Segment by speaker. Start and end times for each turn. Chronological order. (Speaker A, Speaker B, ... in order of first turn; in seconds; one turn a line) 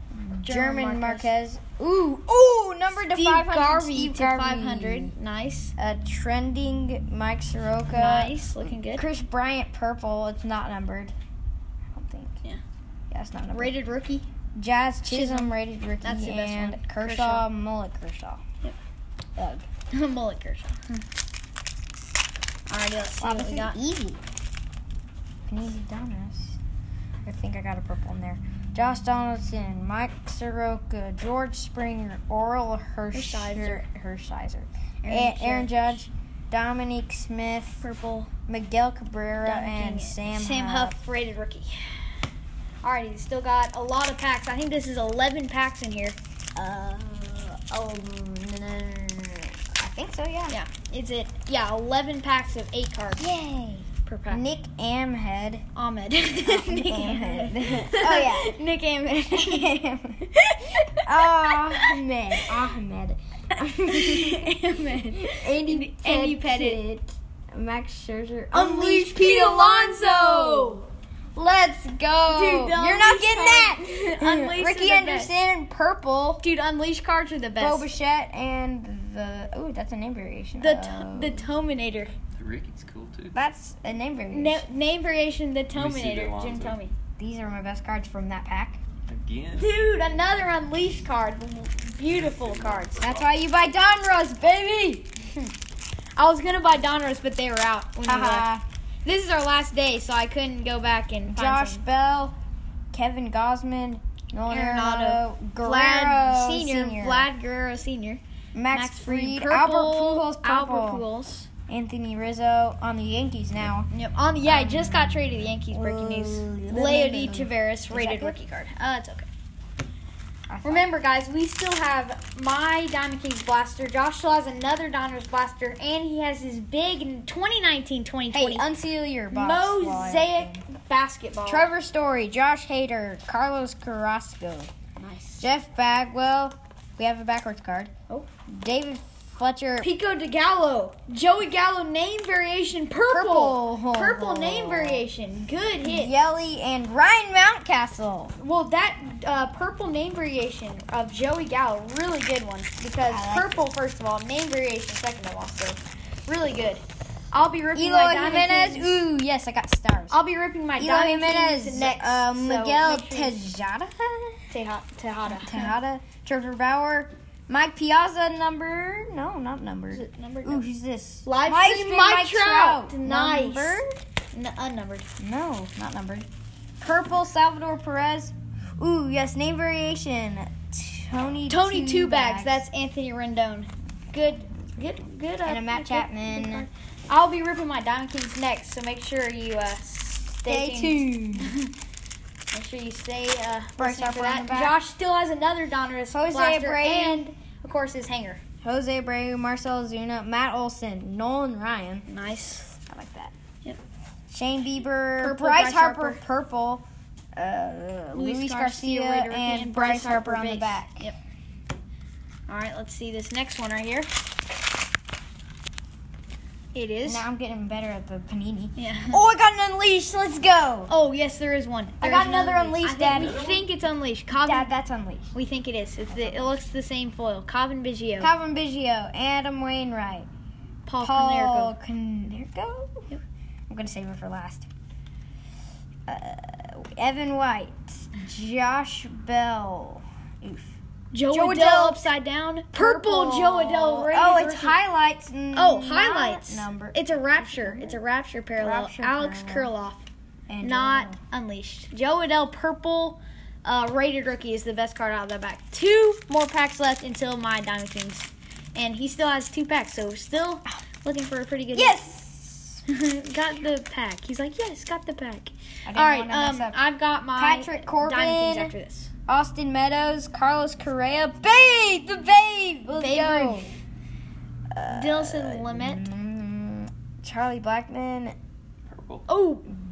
Speaker A: 0.1-5.1
Speaker B: 0.4-1.3
Speaker B: 3.0-5.8
Speaker A: 5.8-11.2
Speaker B: 7.9-9.1
Speaker A: 11.9-12.4
Speaker A: 13.1-13.8
Speaker B: 13.5-14.3
Speaker A: 14.6-18.4
Speaker B: 15.1-17.5
Speaker A: 19.4-19.7
Speaker B: 19.9-21.0
Speaker B: 22.7-23.8
Speaker A: 23.2-24.2
Speaker A: 25.5-26.6
Speaker A: 27.2-37.8
Speaker B: 33.1-33.8
Speaker B: 35.0-36.0
Speaker B: 37.8-38.3
Speaker A: 38.5-41.0
Speaker B: 39.4-41.7
Speaker B: 42.8-46.2
Speaker A: 46.6-50.6
Speaker B: 50.5-53.3
Speaker A: 53.2-55.6
Speaker B: 54.1-54.5
Speaker B: 55.8-62.5
Speaker A: 56.4-58.5
Speaker A: 59.3-60.3
Speaker A: 61.0-64.5
Speaker B: 63.9-66.8
Speaker A: 65.2-70.8
Speaker B: 68.5-70.9
Speaker A: 71.3-76.4
Speaker B: 72.3-75.3
Speaker B: 76.4-77.9
Speaker A: 77.6-81.5
Speaker B: 80.6-82.1
Speaker C: 82.3-83.4
Speaker A: 83.3-84.7
Speaker B: 84.3-86.9
Speaker C: 85.7-86.8
Speaker A: 87.2-88.8
Speaker C: 89.1-89.7
Speaker B: 89.6-93.1
Speaker C: 92.1-93.3
Speaker A: 93.0-95.1
Speaker B: 96.2-98.5
Speaker A: 98.0-98.6
Speaker B: 99.0-101.8
Speaker A: 101.3-102.3
Speaker A: 102.9-107.3
Speaker B: 104.5-111.5
Speaker A: 108.5-111.0
Speaker A: 111.7-113.9
Speaker B: 113.9-119.3
Speaker A: 114.4-118.4
Speaker A: 120.5-120.9
Speaker B: 120.6-128.7
Speaker A: 128.3-130.6
Speaker B: 129.3-131.7
Speaker A: 131.5-134.7
Speaker B: 135.0-135.5
Speaker A: 135.4-137.9
Speaker A: 138.5-139.9
Speaker B: 139.8-146.1
Speaker A: 143.1-145.1
Speaker A: 145.8-148.3
Speaker B: 148.4-159.0
Speaker A: 153.1-153.7
Speaker A: 157.7-160.2
Speaker B: 160.1-163.4
Speaker A: 160.8-164.4
Speaker B: 164.5-165.7
Speaker A: 165.3-174.0
Speaker B: 169.9-170.7
Speaker B: 171.2-173.8
Speaker B: 174.3-175.1
Speaker A: 175.2-176.3
Speaker A: 176.8-182.6
Speaker B: 181.5-191.7
Speaker A: 185.4-186.7
Speaker A: 190.5-191.6
Speaker B: 192.5-198.4
Speaker A: 193.8-194.8
Speaker A: 196.1-197.2
Speaker A: 198.6-202.1
Speaker B: 202.1-202.7
Speaker A: 202.8-203.3
Speaker A: 204.3-206.8
Speaker B: 205.2-206.2
Speaker A: 207.3-211.0
Speaker B: 208.1-211.2
Speaker B: 212.5-214.1
Speaker B: 216.7-217.3
Speaker A: 217.1-220.9
Speaker B: 218.8-219.2
Speaker B: 220.9-224.7
Speaker A: 222.0-223.4
Speaker C: 223.1-223.7
Speaker A: 224.3-225.3
Speaker B: 225.3-228.3
Speaker A: 226.1-226.6
Speaker A: 228.2-230.3
Speaker B: 230.9-231.8
Speaker A: 231.0-233.1
Speaker A: 233.7-234.7
Speaker A: 236.1-240.8
Speaker B: 241.1-244.8
Speaker A: 241.3-242.1
Speaker A: 242.7-248.0
Speaker B: 245.6-250.1
Speaker A: 248.6-249.7
Speaker A: 250.5-251.2
Speaker B: 250.6-262.0
Speaker A: 261.7-262.8
Speaker B: 262.9-269.1
Speaker A: 265.9-266.8
Speaker A: 267.4-268.7
Speaker A: 269.3-273.7
Speaker B: 272.9-273.7
Speaker A: 274.7-278.4
Speaker B: 274.9-276.1
Speaker C: 278.9-279.3
Speaker B: 279.3-279.7